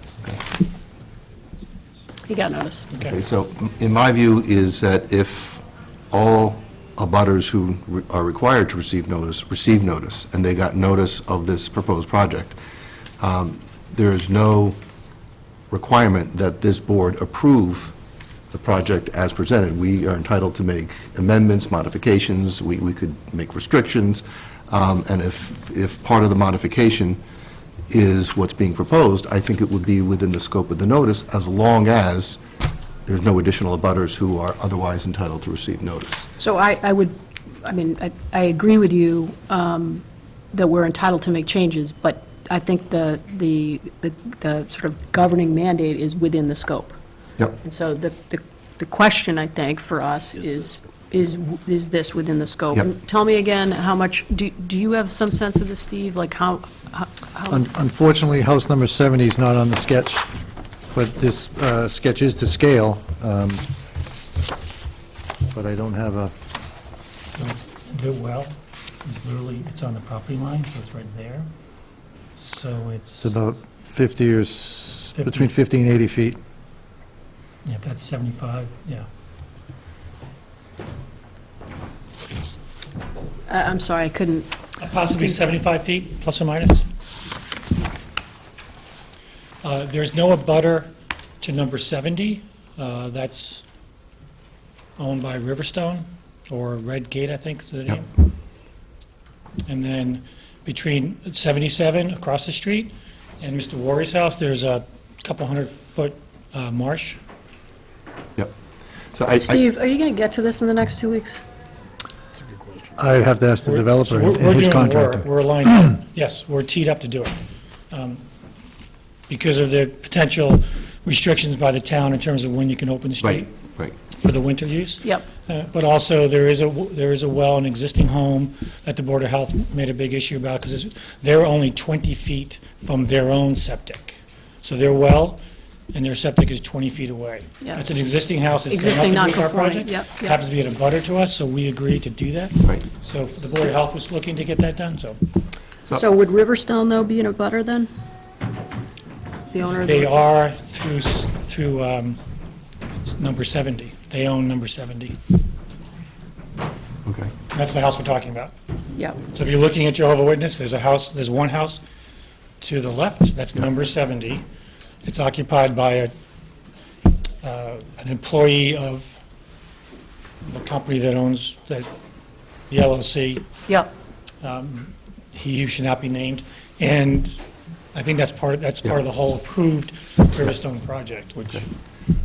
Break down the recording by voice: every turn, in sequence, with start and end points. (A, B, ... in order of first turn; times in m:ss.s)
0:02.3-0:02.9 A
0:03.0-0:12.6 B
0:13.2-0:14.8 B
0:15.7-0:18.0 B
0:18.5-0:27.2 B
0:27.9-0:32.4 B
0:33.1-0:36.3 B
0:36.4-0:47.0 A
0:47.6-0:57.6 A
0:57.5-1:00.3 C
1:00.9-1:03.7 C
1:05.5-1:06.3 C
1:07.3-1:11.5 D
1:12.4-1:13.3 D
1:13.2-1:16.4 C
1:15.1-1:15.5 D
1:17.6-1:19.1 D
1:23.5-1:24.5 A
1:24.8-1:26.9 D
1:29.6-1:33.6 D
1:35.0-1:38.1 D
1:39.7-1:47.2 D
1:49.1-1:49.6 B
1:49.4-1:51.4 A
1:53.0-1:55.3 C
1:53.6-1:57.4 D
1:57.9-1:58.2 D
1:59.3-2:03.5 D
2:03.2-2:04.0 B
2:04.1-2:15.4 D
2:15.9-2:25.2 D
2:18.7-2:20.4 A
2:25.9-2:27.9 A
2:29.5-2:30.2 A
2:29.8-2:32.2 D
2:33.0-2:35.2 D
2:37.0-2:37.3 B
2:37.5-2:38.5 D
2:39.2-2:41.8 D
2:42.6-2:44.4 D
2:45.0-2:46.1 D
2:47.4-2:49.2 D
2:50.4-2:51.9 D
2:52.7-2:53.4 D
2:54.4-2:57.4 D
2:57.9-3:01.7 D